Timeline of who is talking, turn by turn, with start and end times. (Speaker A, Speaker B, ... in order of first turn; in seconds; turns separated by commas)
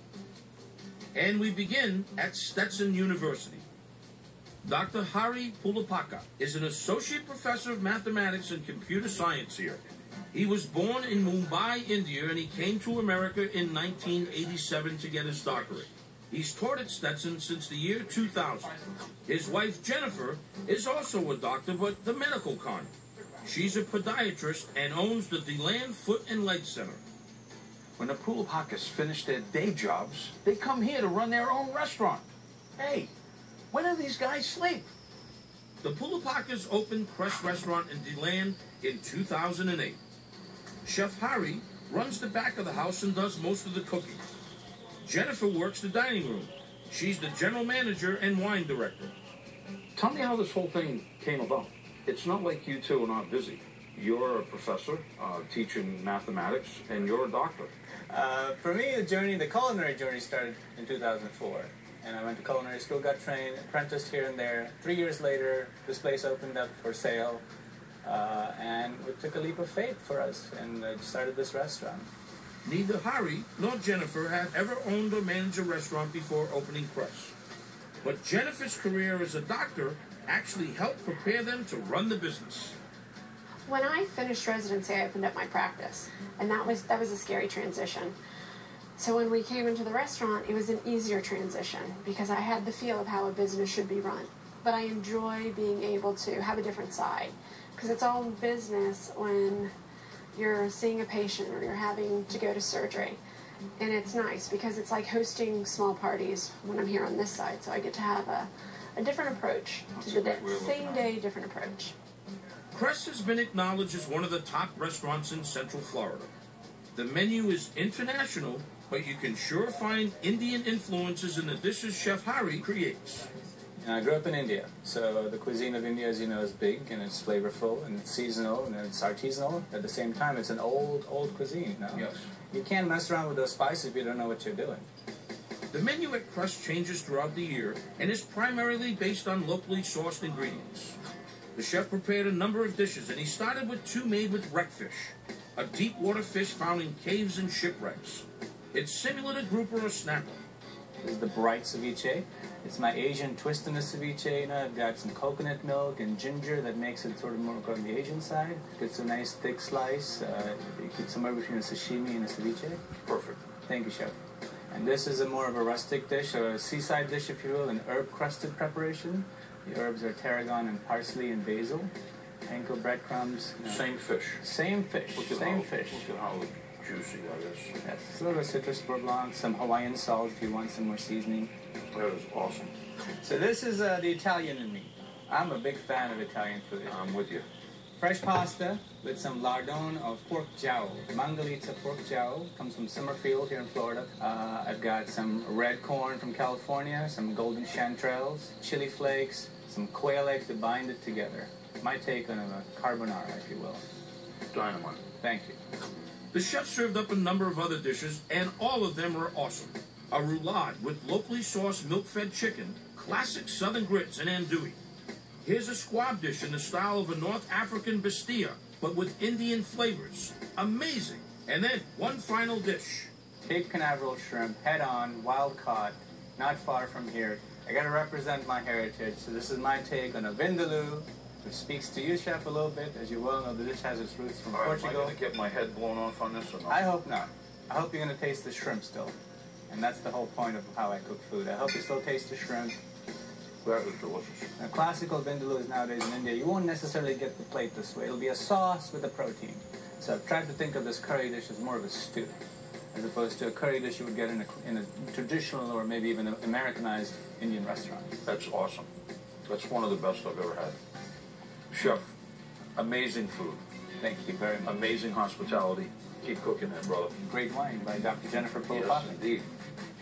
Speaker A: 1.1-3.6, Speaker A: 4.6-9.8, Speaker A: 10.3-22.9, Speaker A: 23.4-27.0, Speaker B: 28.0-32.2, Speaker B: 32.8-33.1, Speaker B: 33.7-34.8, Speaker A: 35.8-40.0, Speaker A: 40.8-44.2, Speaker A: 45.0-49.1, Speaker B: 50.0-57.7, Speaker C: 58.1-67.4, Speaker C: 68.0-72.1, Speaker A: 72.6-77.3, Speaker A: 78.0-82.8, Speaker D: 83.7-88.2, Speaker D: 89.0-99.7, Speaker D: 100.3-103.2, Speaker D: 103.8-111.9, Speaker B: 110.0-111.1, Speaker A: 112.7-116.3, Speaker A: 116.9-123.3, Speaker C: 123.8-134.8, Speaker A: 135.7-141.0, Speaker A: 141.6-150.4, Speaker C: 151.0-162.8, Speaker B: 163.0-163.4, Speaker C: 163.7-164.1, Speaker C: 164.7-171.9, Speaker C: 172.4-173.8, Speaker B: 173.7-174.4, Speaker C: 174.4-176.0, Speaker B: 175.2-177.7, Speaker C: 177.8-181.5, Speaker B: 181.9-182.7, Speaker C: 183.2-187.0, Speaker B: 186.8-187.4, Speaker C: 188.0-203.8, Speaker B: 204.5-205.0, Speaker C: 205.2-205.6, Speaker A: 206.3-214.8, Speaker A: 215.4-223.1, Speaker C: 223.4-235.2, Speaker B: 234.5-236.8, Speaker C: 236.7-239.1, Speaker C: 239.7-242.8, Speaker B: 243.6-244.5, Speaker C: 244.6-252.4, Speaker C: 252.9-258.2, Speaker B: 258.2-258.9, Speaker B: 259.5-260.8, Speaker B: 261.7-262.0, Speaker B: 262.8-263.6, Speaker C: 264.0-264.8, Speaker B: 264.6-267.1, Speaker C: 267.3-269.2, Speaker B: 268.7-269.5